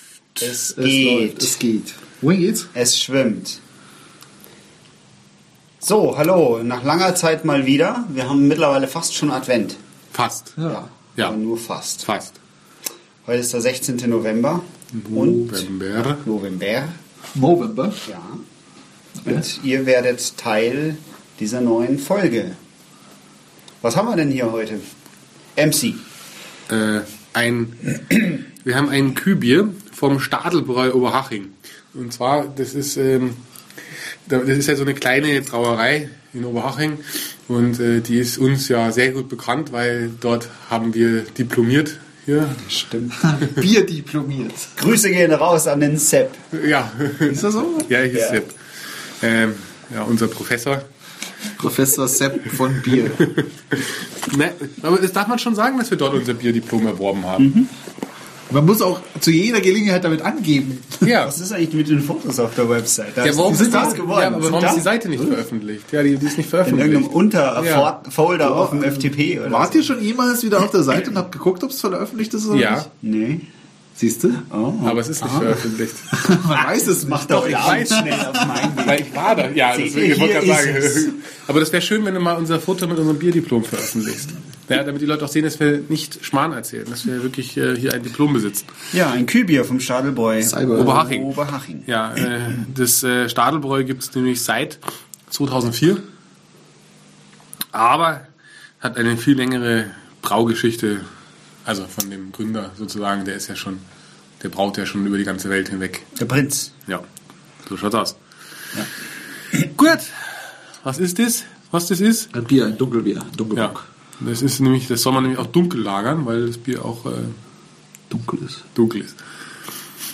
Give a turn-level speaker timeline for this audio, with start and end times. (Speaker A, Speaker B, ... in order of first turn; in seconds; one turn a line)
Speaker A: 0.4-1.6
Speaker B: 0.5-2.7
Speaker A: 2.7-3.6
Speaker A: 5.8-9.8
Speaker C: 10.1-10.6
Speaker B: 10.6-10.9
Speaker A: 10.7-12.1
Speaker C: 12.0-12.3
Speaker A: 13.2-15.7
Speaker C: 14.9-16.2
Speaker A: 16.2-16.9
Speaker B: 17.4-18.0
Speaker A: 18.1-18.4
Speaker A: 19.2-22.6
Speaker A: 23.8-24.9
Speaker A: 25.6-26.0
Speaker C: 26.7-33.4
Speaker C: 34.3-42.7
Speaker A: 42.6-43.2
Speaker B: 43.2-44.7
Speaker A: 44.8-46.4
Speaker C: 46.5-48.5
Speaker B: 47.3-47.9
Speaker A: 48.1-48.4
Speaker C: 49.2-50.8
Speaker B: 51.6-53.3
Speaker C: 53.2-57.5
Speaker A: 57.4-57.7
Speaker B: 58.5-61.1
Speaker C: 61.0-61.3
Speaker A: 61.2-64.9
Speaker C: 63.2-67.9
Speaker B: 63.5-64.8
Speaker A: 66.6-69.9
Speaker B: 68.4-72.9
Speaker C: 72.5-72.9
Speaker A: 73.0-73.5
Speaker B: 74.0-74.4
Speaker A: 74.4-75.6
Speaker C: 74.8-76.1
Speaker B: 76.1-78.7
Speaker A: 76.8-81.1
Speaker C: 77.3-78.2
Speaker C: 78.8-88.7
Speaker A: 88.9-91.9
Speaker B: 90.4-91.0
Speaker C: 90.8-91.3
Speaker C: 91.9-96.0
Speaker C: 97.7-98.2
Speaker C: 98.8-101.1
Speaker C: 101.7-103.8
Speaker C: 104.4-106.1
Speaker A: 106.2-106.7
Speaker C: 107.7-108.2
Speaker C: 109.6-110.1
Speaker C: 110.8-112.3
Speaker B: 112.3-113.8
Speaker C: 113.5-117.4
Speaker B: 118.1-118.6
Speaker C: 118.8-119.2